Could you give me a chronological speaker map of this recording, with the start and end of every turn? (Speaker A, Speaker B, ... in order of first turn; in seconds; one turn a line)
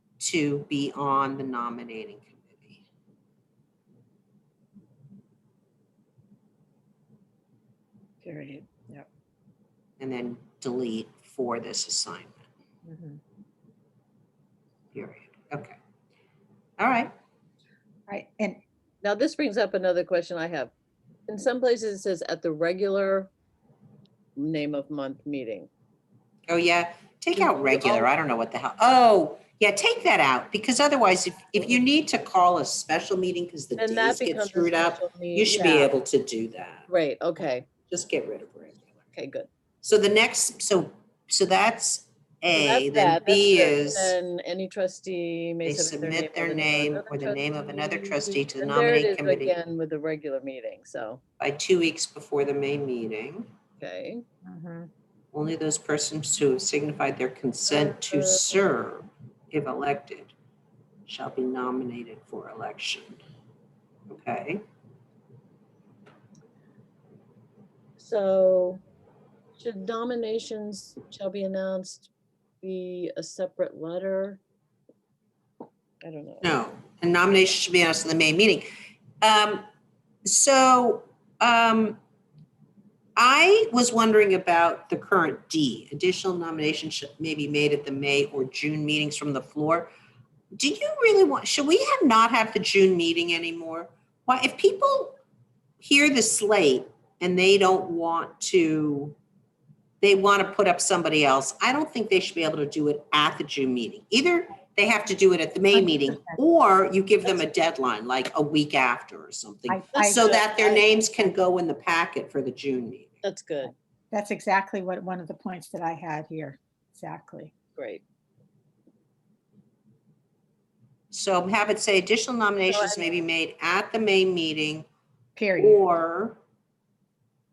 Speaker A: 0.2-2.8
Speaker B: 8.2-9.1
Speaker A: 10.0-12.4
Speaker B: 12.8-13.2
Speaker A: 14.9-15.8
Speaker A: 16.8-17.1
Speaker B: 18.1-18.6
Speaker C: 19.0-20.7
Speaker C: 21.3-23.3
Speaker C: 24.4-25.7
Speaker A: 26.5-36.9
Speaker C: 27.4-28.1
Speaker C: 33.8-35.9
Speaker C: 36.9-37.7
Speaker A: 37.9-38.9
Speaker C: 39.1-39.5
Speaker A: 39.8-44.2
Speaker C: 42.5-51.2
Speaker A: 45.6-49.5
Speaker A: 51.4-53.5
Speaker C: 53.8-54.2
Speaker B: 54.4-54.9
Speaker A: 55.3-60.3
Speaker C: 57.7-58.5
Speaker A: 61.0-63.2
Speaker A: 64.1-64.6
Speaker C: 68.0-68.8
Speaker C: 69.6-72.1
Speaker C: 72.6-74.4
Speaker C: 76.0-76.5
Speaker A: 76.4-78.7
Speaker A: 79.2-79.7
Speaker A: 80.2-82.0
Speaker A: 83.2-89.9
Speaker A: 90.6-95.2
Speaker A: 95.8-99.2
Speaker A: 100.0-113.1
Speaker B: 105.7-106.4
Speaker B: 109.7-111.3
Speaker C: 109.9-110.4
Speaker C: 113.2-113.7
Speaker B: 114.1-117.5
Speaker C: 117.8-118.0
Speaker A: 121.1-124.9
Speaker C: 122.7-123.1
Speaker B: 125.3-125.8
Speaker A: 125.6-126.4